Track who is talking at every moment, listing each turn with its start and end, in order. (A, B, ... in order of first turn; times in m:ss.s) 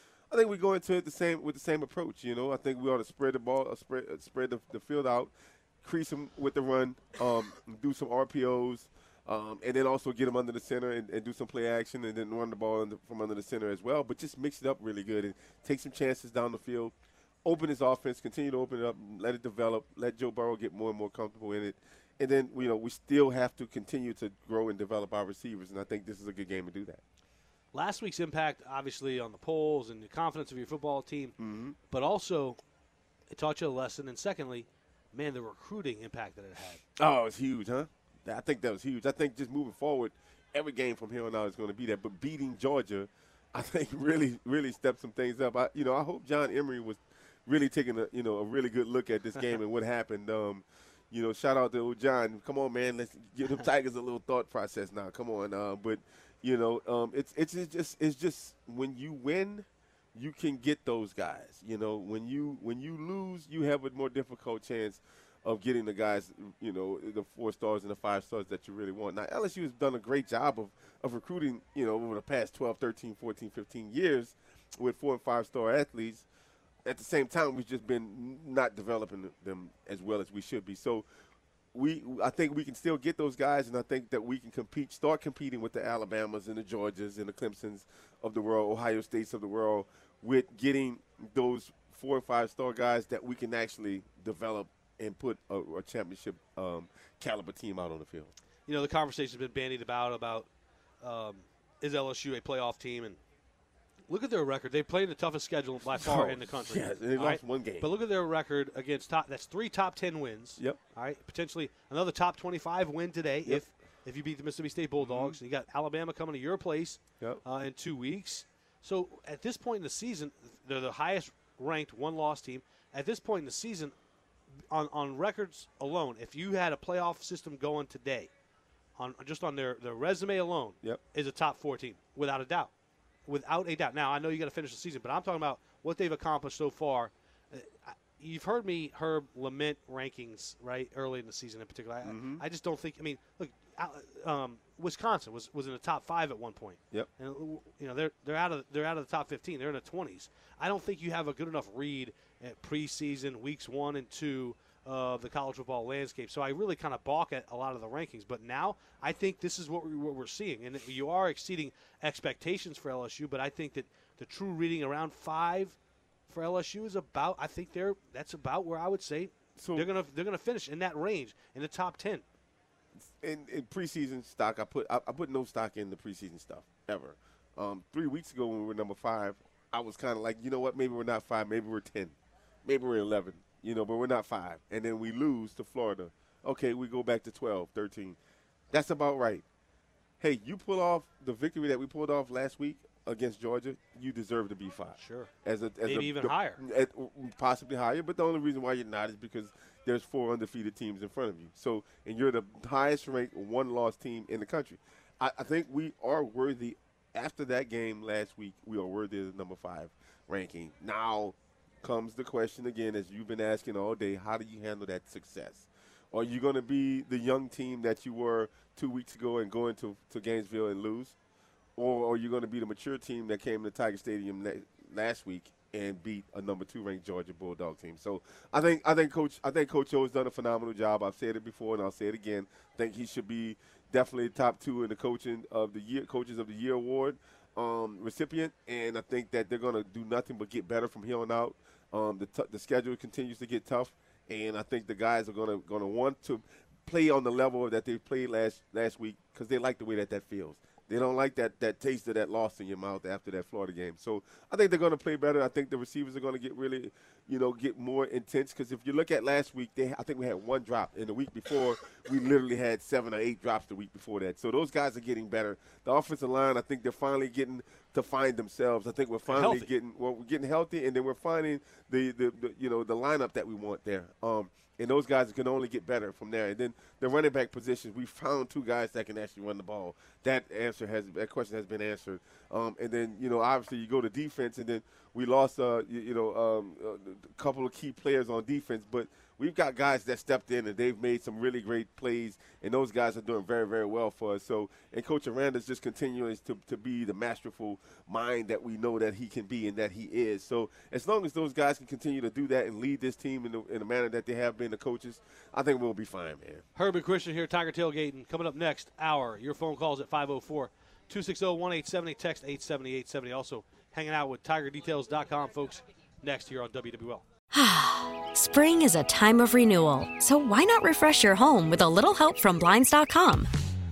0:00.3-0:27.0 A
0:27.7-0:31.4 B
0:31.4-0:31.8 A
0:31.9-0:32.6 B
0:33.3-0:36.8 B
0:37.0-1:16.3 A
1:16.8-1:21.0 A
1:21.7-1:38.3 A
1:38.7-1:40.5 B
1:41.0-1:43.2 B
1:44.1-2:04.0 B
1:46.0-1:47.9 A
1:55.0-1:55.4 A
2:04.7-2:08.3 B
2:09.0-2:12.7 B
2:13.3-2:45.8 B
2:22.0-2:22.4 A
2:46.3-2:52.2 B
2:49.6-2:49.9 A
2:53.0-3:08.2 A
3:08.7-3:09.4 A
3:10.2-3:41.2 A
3:15.0-3:15.3 B
3:15.8-3:16.6 B
3:41.8-5:06.6 A
4:29.3-4:29.7 B
5:06.8-5:17.2 B
5:17.5-5:23.5 C